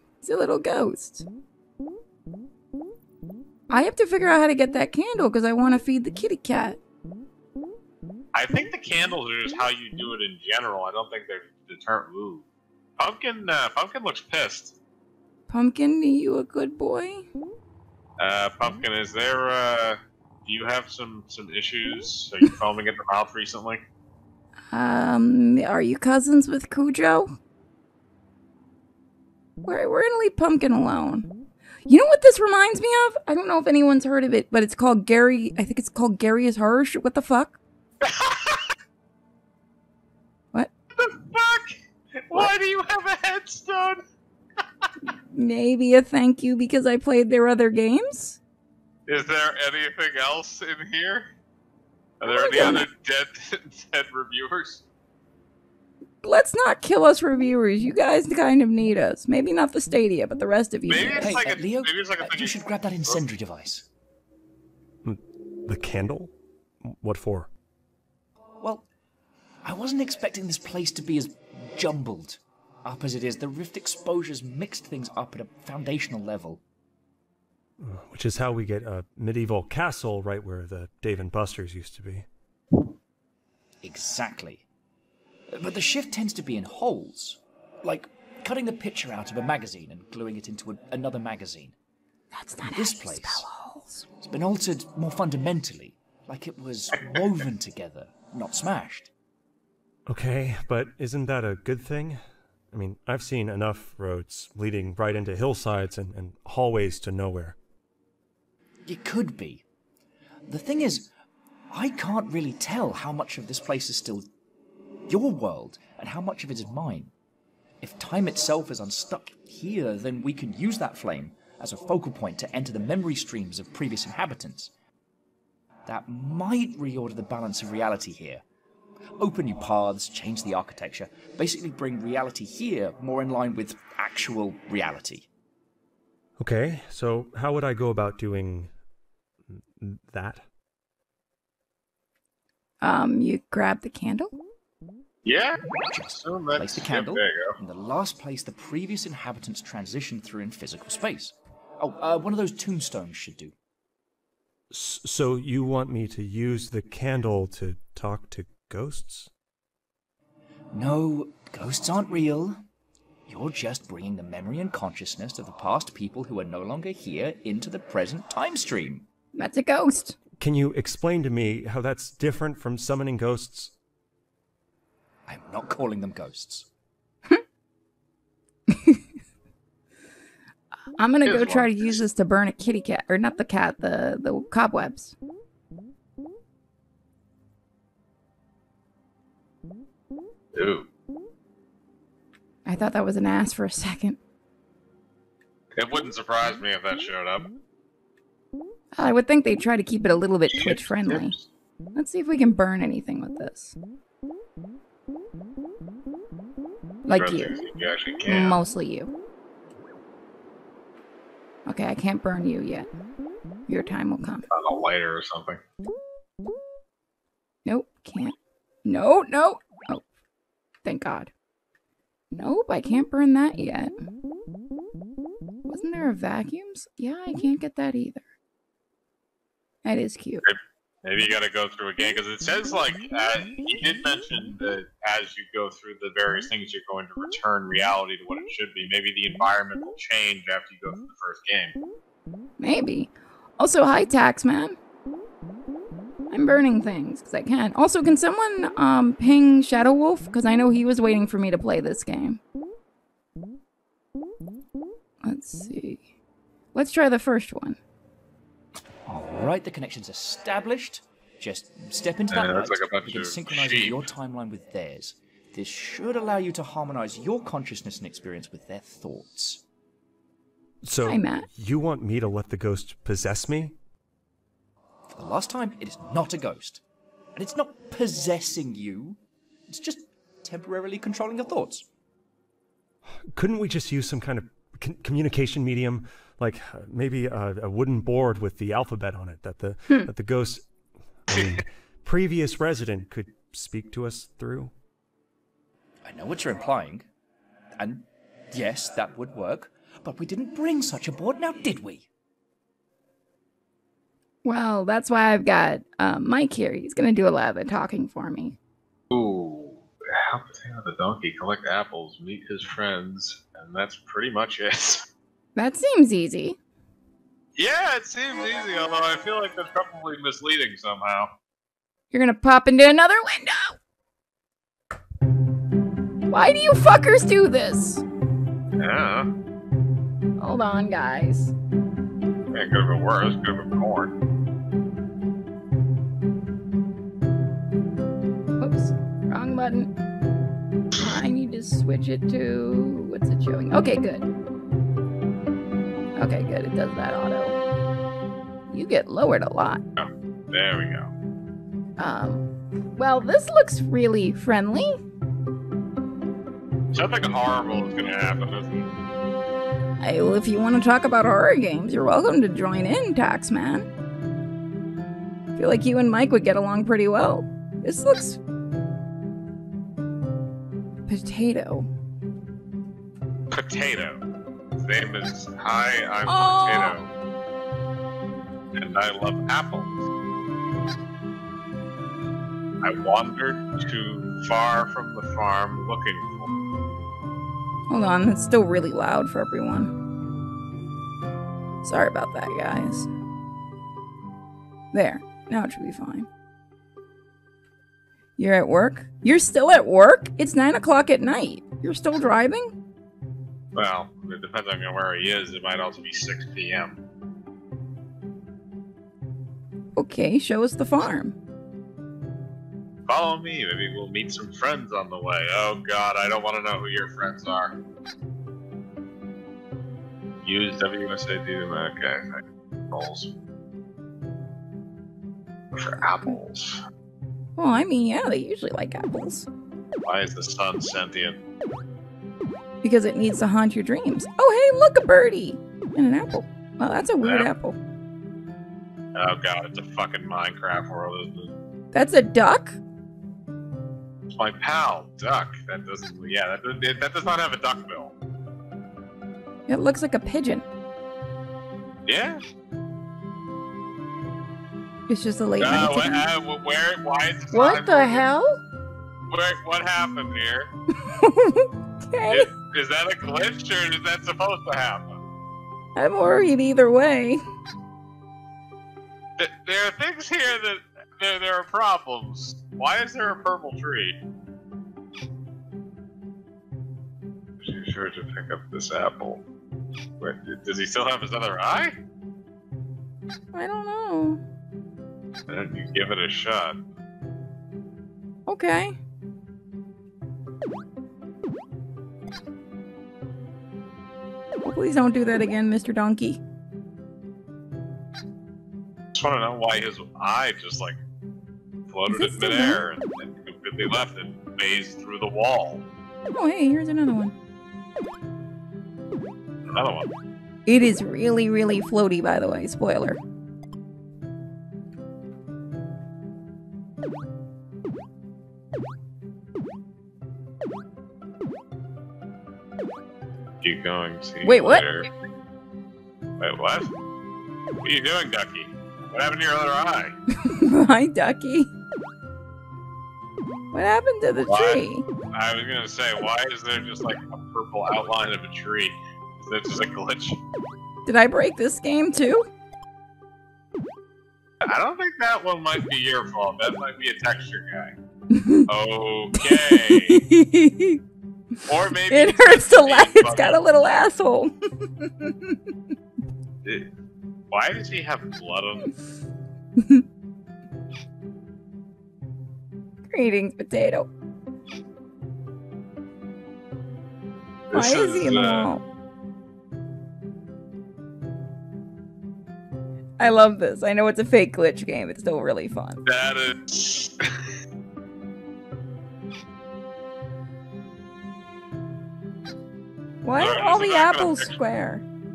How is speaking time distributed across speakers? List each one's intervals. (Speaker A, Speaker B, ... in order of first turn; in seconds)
Speaker A: 0.2-1.2, 3.7-6.8, 15.5-17.2, 24.7-27.4, 29.6-31.3, 31.9-37.6, 45.0-48.4, 52.2-52.9, 56.2-61.5, 92.3-94.0, 142.8-144.3, 169.3-170.2, 178.7-179.0, 181.0-185.1, 192.7-194.2, 198.9-201.3, 201.9-203.7, 207.0-207.6, 208.2-209.1, 211.7-212.9, 213.7-214.5, 217.7-220.0, 220.8-221.3, 222.3-224.0, 225.7-228.2, 229.8-230.4, 242.6-244.8, 246.3-252.4, 255.2-256.0, 256.7-257.8, 271.1-271.5, 304.4-308.6, 315.6-316.6, 322.1-323.8, 326.3-328.0, 330.4-331.5, 338.6-339.9, 341.0-344.3, 346.2-347.6, 348.7-349.8, 352.0-355.0, 360.0-363.9, 365.6-368.4, 371.1-371.9, 376.2-376.9, 387.9-389.9, 391.8-393.1, 394.9-396.3, 398.4-402.7, 409.9-411.4, 427.6-429.5, 432.8-437.8, 441.9-442.8, 449.7-450.6, 455.1-456.3, 457.5-458.6, 461.0-462.5, 465.9-467.4, 483.5-484.4, 488.5-488.9, 494.6-496.4, 502.1-502.8, 506.3-507.3, 510.6-513.2, 524.4-524.9, 530.4-531.7, 533.7-535.0, 541.0-542.5, 548.3-548.6, 549.4-551.0, 552.1-555.6, 563.1-564.1, 567.7-568.8, 573.2-576.0, 583.2-585.0
Speaker B: 8.3-12.4, 13.0-14.8, 18.2-23.8, 38.0-38.7, 41.0-44.0, 49.1-51.3, 52.2-54.8, 60.9-63.2, 145.2-145.7, 146.2-147.6, 181.2-182.0, 190.5-190.9, 195.8-197.5, 200.5-201.4, 207.1-208.6, 214.5-215.6, 230.4-241.8, 262.3-264.1, 309.1-315.1, 317.6-321.3, 328.8-329.3, 332.5-334.1, 350.0-351.1, 356.9-358.9, 373.5-374.2, 374.8-377.1, 378.8-380.0, 382.8-386.5, 403.7-407.0, 413.1-417.8, 420.4-423.3, 425.7-426.8, 430.1-431.4, 437.2-437.5, 439.1-441.5, 444.3-448.1, 452.1-452.4, 455.6-458.2, 459.3-460.7, 462.3-465.2, 469.4-474.2, 477.6-479.4, 480.2-481.9, 485.5-486.8, 499.1-501.0, 501.9-505.8, 509.7-510.1, 523.6-525.1, 526.4-526.9, 527.8-530.1, 534.5-540.4, 544.6-547.9, 548.7-550.2, 551.7-554.0, 557.5-558.9, 567.7-568.7, 576.0-577.5, 583.3-584.6
Speaker C: 61.2-63.9, 68.6-68.8, 69.6-76.6, 83.8-84.7, 85.5-91.7, 92.7-93.5, 94.2-99.1, 108.8-109.6, 110.5-111.1, 111.7-114.3, 115.1-117.1, 117.8-124.7, 125.8-128.4, 129.1-135.3, 145.9-153.5, 160.7-162.6, 163.3-169.1, 175.3-176.7, 259.1-269.6, 275.1-276.8, 277.3-281.9, 296.0-297.0, 297.8-302.1
Speaker D: 65.0-67.5, 77.8-82.3, 100.1-107.6, 136.4-138.7, 139.7-140.4, 154.7-159.3, 170.4-173.7, 270.8-273.8, 283.1-294.7